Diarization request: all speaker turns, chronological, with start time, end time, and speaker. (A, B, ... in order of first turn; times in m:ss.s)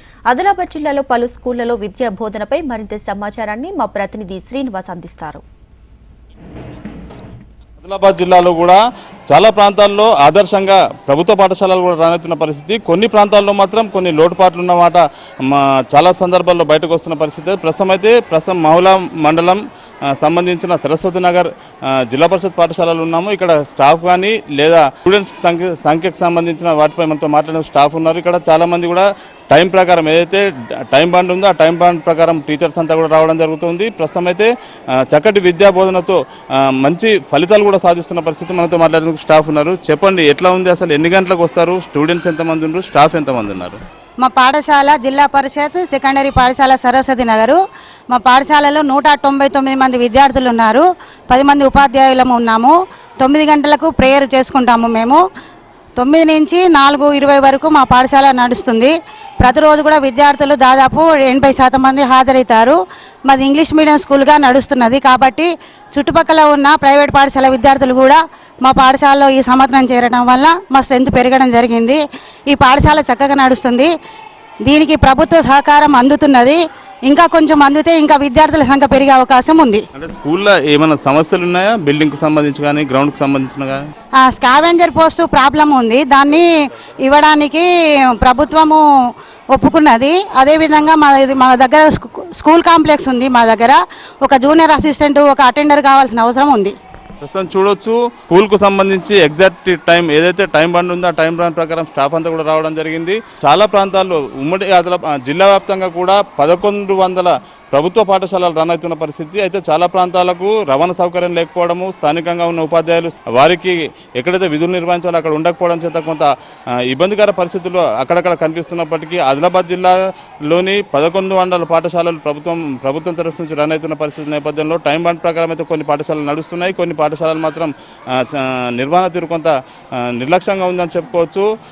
0:00.3-0:05.4 A
0:07.8-0:43.8 B
0:44.2-0:47.6 C
0:48.1-0:55.2 C
0:56.0-1:13.9 C
1:14.6-1:19.8 C
1:20.0-1:23.8 B
1:24.2-1:28.8 C
1:29.5-1:36.8 C
1:37.2-1:56.3 B
1:56.9-2:11.5 B